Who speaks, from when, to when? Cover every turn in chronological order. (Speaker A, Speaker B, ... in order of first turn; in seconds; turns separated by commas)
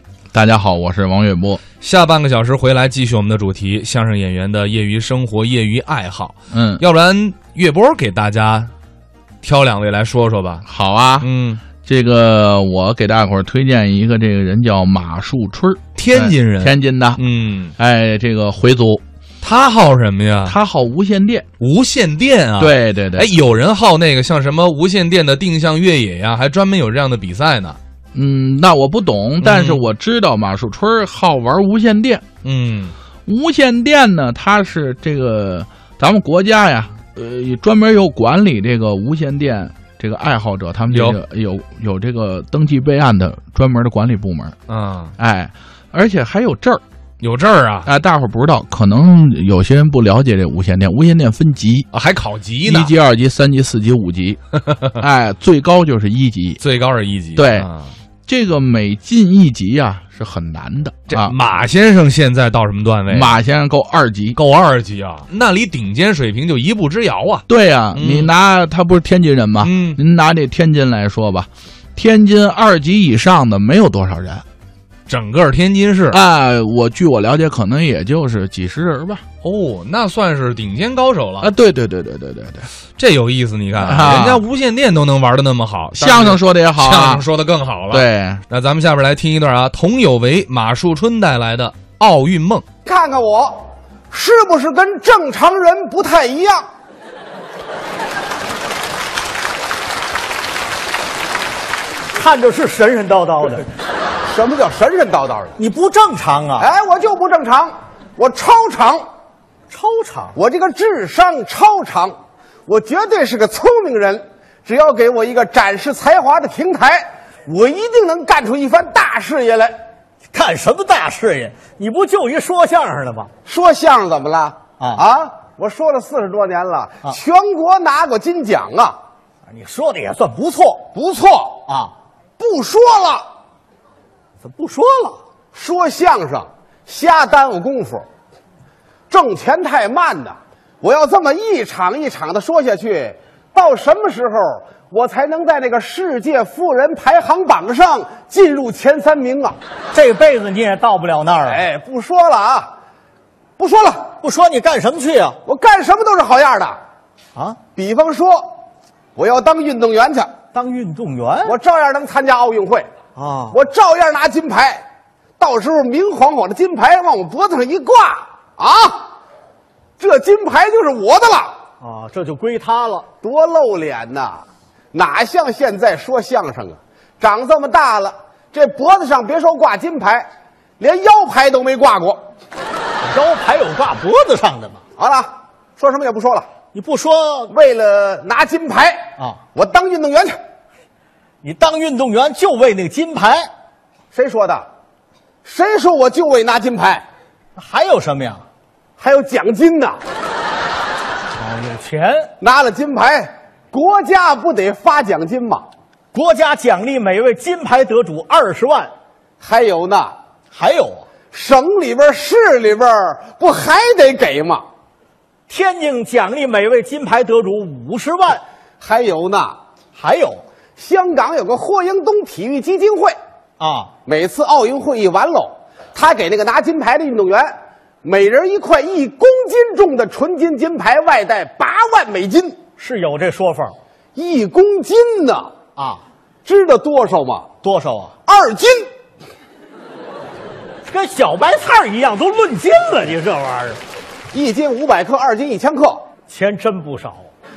Speaker A: 0.3-1.6, Speaker B: 1.8-8.7, Speaker A: 6.5-6.8, Speaker B: 9.4-10.6, Speaker A: 10.7-11.3, Speaker B: 11.2-11.6, Speaker A: 11.8-17.2, Speaker B: 15.9-17.7, Speaker A: 17.8-19.0, Speaker B: 19.4-20.6, Speaker A: 20.4-21.4, Speaker B: 21.6-27.8, Speaker A: 22.6-23.3, Speaker A: 28.1-32.2, Speaker B: 29.4-29.8, Speaker B: 32.4-32.9, Speaker A: 33.3-44.5, Speaker B: 40.9-41.2, Speaker B: 44.7-45.1, Speaker A: 45.2-46.8, Speaker B: 47.2-47.9, Speaker A: 47.9-51.9, Speaker B: 51.9-53.0, Speaker A: 52.6-54.4, Speaker A: 55.0-56.6, Speaker B: 56.6-57.9, Speaker A: 57.4-57.7, Speaker A: 58.3-61.3, Speaker B: 61.1-63.4, Speaker A: 63.1-64.4, Speaker B: 64.3-68.3, Speaker A: 67.5-74.4, Speaker B: 69.6-70.0, Speaker B: 75.1-76.2, Speaker A: 76.1-79.2, Speaker B: 79.4-81.5, Speaker A: 81.4-82.7, Speaker B: 83.0-92.6, Speaker A: 83.8-84.4, Speaker A: 85.9-87.2, Speaker A: 87.9-88.4, Speaker C: 92.8-96.7, Speaker D: 102.1-103.7, Speaker C: 104.3-105.5, Speaker D: 105.6-106.7, Speaker C: 106.6-109.1, Speaker D: 109.7-110.3, Speaker C: 110.3-112.2, Speaker C: 112.7-119.8, Speaker D: 120.3-123.3, Speaker C: 123.5-128.9, Speaker D: 124.8-125.0, Speaker D: 129.5-130.8, Speaker C: 130.9-131.6, Speaker D: 131.7-131.9, Speaker C: 132.4-133.2, Speaker D: 134.4-135.2, Speaker C: 135.5-138.1, Speaker C: 139.1-149.6, Speaker D: 149.9-151.6, Speaker C: 151.5-152.7, Speaker C: 153.6-154.1, Speaker D: 154.2-155.4, Speaker C: 155.4-156.8, Speaker C: 157.8-158.5, Speaker C: 159.2-160.3, Speaker D: 160.5-161.6, Speaker C: 161.4-162.9, Speaker D: 163.2-163.6, Speaker C: 163.5-164.8, Speaker C: 165.4-169.1, Speaker C: 170.0-171.6, Speaker D: 171.8-173.1, Speaker C: 173.2-180.3, Speaker C: 180.8-182.2, Speaker D: 183.0-184.8, Speaker C: 185.0-186.5, Speaker D: 186.7-187.5, Speaker C: 187.5-190.4, Speaker D: 191.4-193.5, Speaker C: 194.1-194.7, Speaker C: 195.4-197.0, Speaker D: 197.6-198.4, Speaker C: 199.0-200.0, Speaker D: 201.3-202.3, Speaker C: 202.4-205.7, Speaker D: 206.1-208.9, Speaker C: 209.4-210.1, Speaker D: 210.5-211.1, Speaker C: 211.3-214.6, Speaker D: 215.5-218.4, Speaker C: 218.8-219.6, Speaker D: 219.9-220.4, Speaker C: 220.8-223.2, Speaker D: 223.6-223.9, Speaker C: 224.1-232.6, Speaker D: 232.8-233.8, Speaker C: 234.1-235.5, Speaker D: 235.8-236.0, Speaker C: 236.4-237.5, Speaker D: 237.6-238.1, Speaker C: 238.2-238.9, Speaker D: 240.9-243.8, Speaker C: 244.3-246.0, Speaker D: 246.3-247.3